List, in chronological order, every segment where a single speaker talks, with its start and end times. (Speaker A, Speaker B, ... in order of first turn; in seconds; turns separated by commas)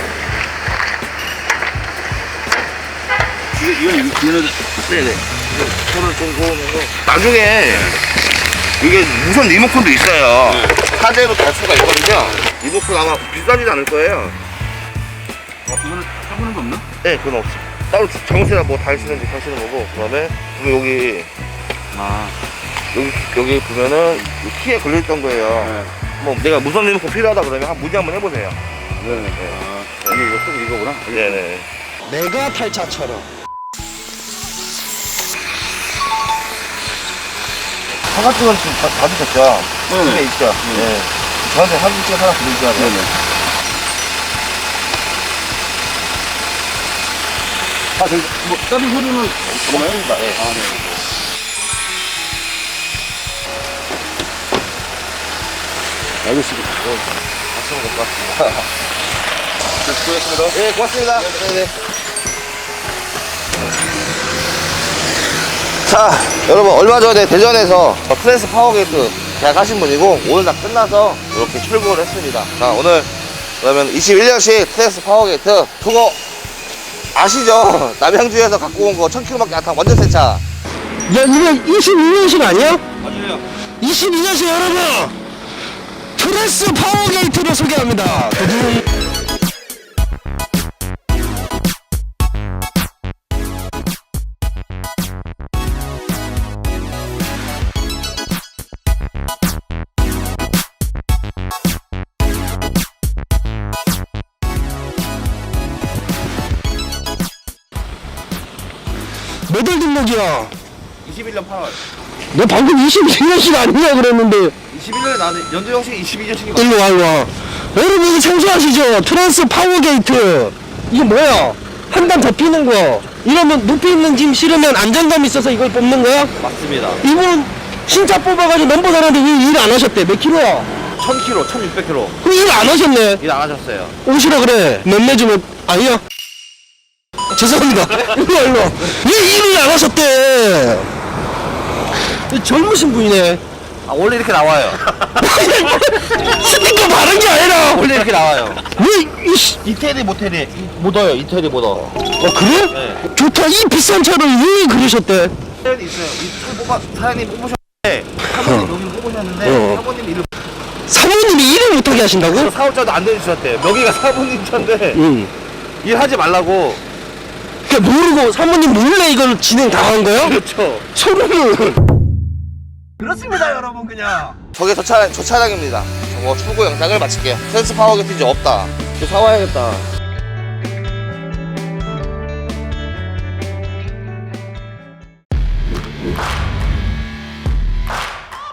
Speaker A: 3.5-4.6, Speaker B: 4.8-8.0, Speaker B: 8.8-14.4, Speaker A: 10.5-10.8, Speaker A: 15.7-16.9, Speaker B: 17.0-21.3, Speaker A: 21.9-22.4, Speaker B: 22.9-28.6, Speaker A: 25.6-25.9, Speaker A: 28.9-31.4, Speaker B: 29.2-30.2, Speaker B: 31.1-31.7, Speaker C: 32.1-33.3, Speaker B: 38.1-43.0, Speaker A: 39.9-40.9, Speaker A: 42.8-43.1, Speaker A: 48.0-51.0, Speaker B: 49.5-50.4, Speaker A: 56.2-56.9, Speaker B: 57.5-58.7, Speaker A: 59.8-60.6, Speaker B: 60.5-61.7, Speaker B: 65.8-76.2, Speaker B: 77.2-80.4, Speaker C: 81.1-82.8, Speaker B: 83.0-83.4, Speaker C: 83.8-85.2, Speaker C: 86.2-88.8, Speaker C: 109.5-110.5, Speaker B: 111.0-111.8, Speaker C: 112.3-114.5, Speaker B: 114.7-116.8, Speaker C: 116.5-126.3, Speaker B: 126.4-127.0, Speaker C: 127.0-130.7, Speaker B: 131.0-132.2, Speaker C: 132.2-133.2, Speaker B: 133.2-134.0, Speaker C: 134.1-136.0, Speaker C: 137.3-140.9, Speaker C: 142.3-143.4, Speaker B: 143.8-144.9, Speaker C: 145.2-147.9, Speaker B: 147.6-148.7, Speaker C: 148.7-149.6, Speaker B: 149.6-152.0, Speaker C: 152.2-155.3, Speaker B: 152.7-153.1, Speaker B: 155.6-160.3, Speaker C: 159.4-159.8, Speaker C: 160.9-162.5, Speaker B: 162.3-165.0, Speaker C: 164.9-165.3, Speaker B: 165.8-166.8, Speaker C: 167.7-170.3, Speaker B: 170.2-170.9, Speaker C: 170.9-171.8, Speaker C: 173.0-174.3, Speaker B: 174.5-179.9